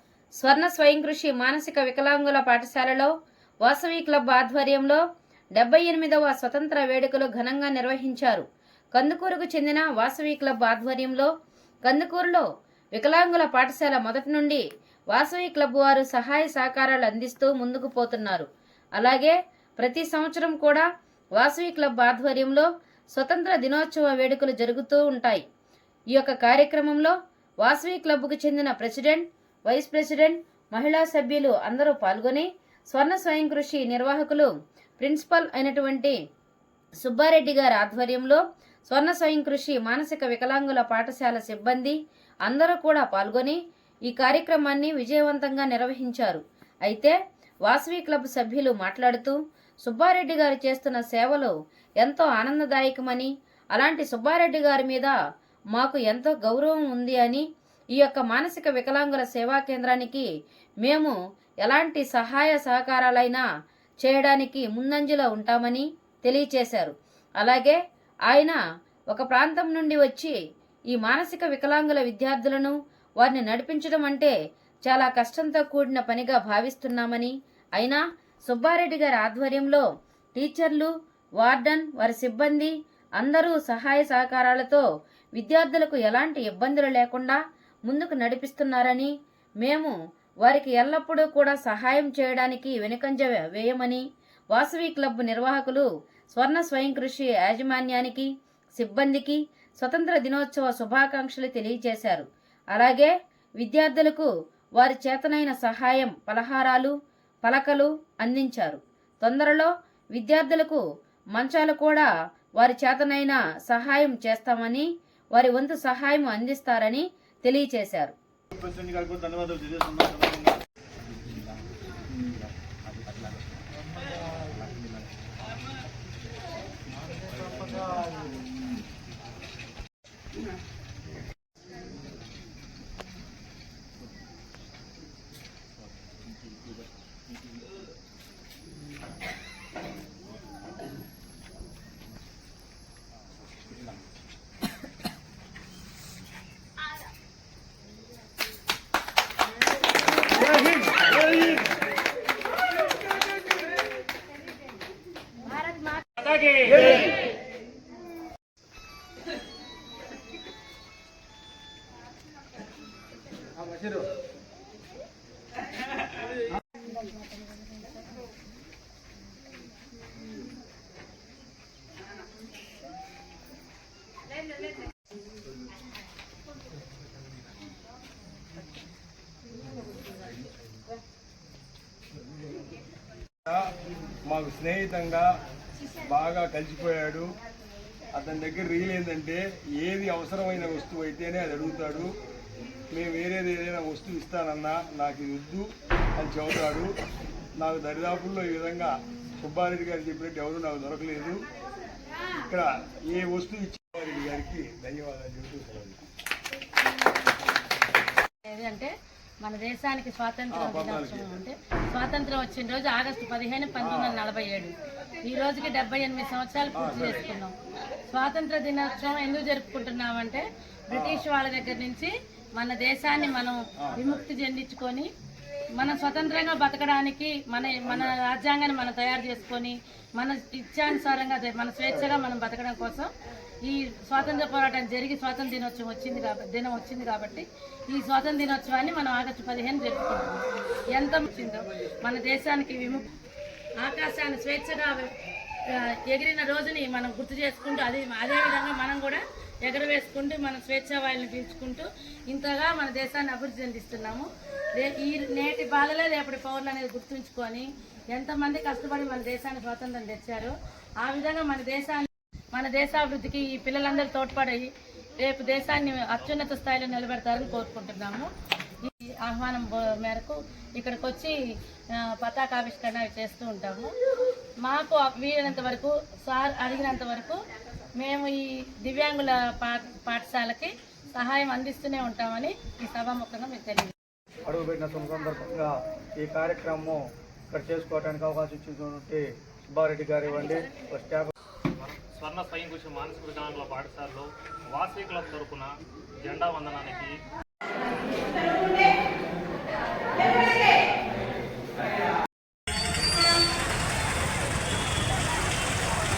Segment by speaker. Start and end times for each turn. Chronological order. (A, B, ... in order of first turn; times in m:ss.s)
0:00.4-0:03.1 A
0:03.6-0:05.0 A
0:05.6-0:08.4 A
0:09.0-0:11.3 A
0:11.9-0:14.6 A
0:15.1-0:18.5 A
0:19.0-0:20.9 A
0:21.4-0:25.4 A
0:26.2-0:36.2 A
0:37.0-0:47.2 A
0:47.7-0:55.1 A
0:55.8-0:57.4 A
0:58.0-1:00.3 A
1:00.8-1:03.4 A
1:04.0-1:07.8 A
1:08.3-1:08.6 A
1:09.1-1:10.4 A
1:10.9-1:14.3 A
1:14.9-1:19.8 A
1:20.4-1:20.9 A
1:21.4-1:24.8 A
1:25.4-1:29.1 A
1:29.6-1:44.3 A
1:44.8-1:50.8 A
1:51.4-1:58.1 A
1:58.5-2:00.6 B
2:36.2-2:37.0 C
2:46.9-2:47.2 D
3:04.3-3:05.3 E
3:06.1-3:07.3 E
3:08.2-3:12.1 E
3:12.9-3:16.9 E
3:17.6-3:21.4 E
3:22.5-3:26.0 E
3:28.4-3:37.5 D
3:30.5-3:31.3 E
3:33.8-3:34.2 E
3:36.8-3:37.3 E
3:38.1-3:45.1 D
3:40.9-3:41.2 E
3:43.8-3:44.1 E
3:45.8-3:53.1 D
3:53.6-4:03.1 D
4:03.8-4:05.1 D
4:05.7-4:28.3 D
4:26.0-4:26.5 C
4:28.8-4:31.4 D
4:32.0-4:33.9 D
4:34.6-4:37.4 D
4:38.0-4:43.9 D
4:44.5-4:51.3 B
4:51.8-4:57.2 C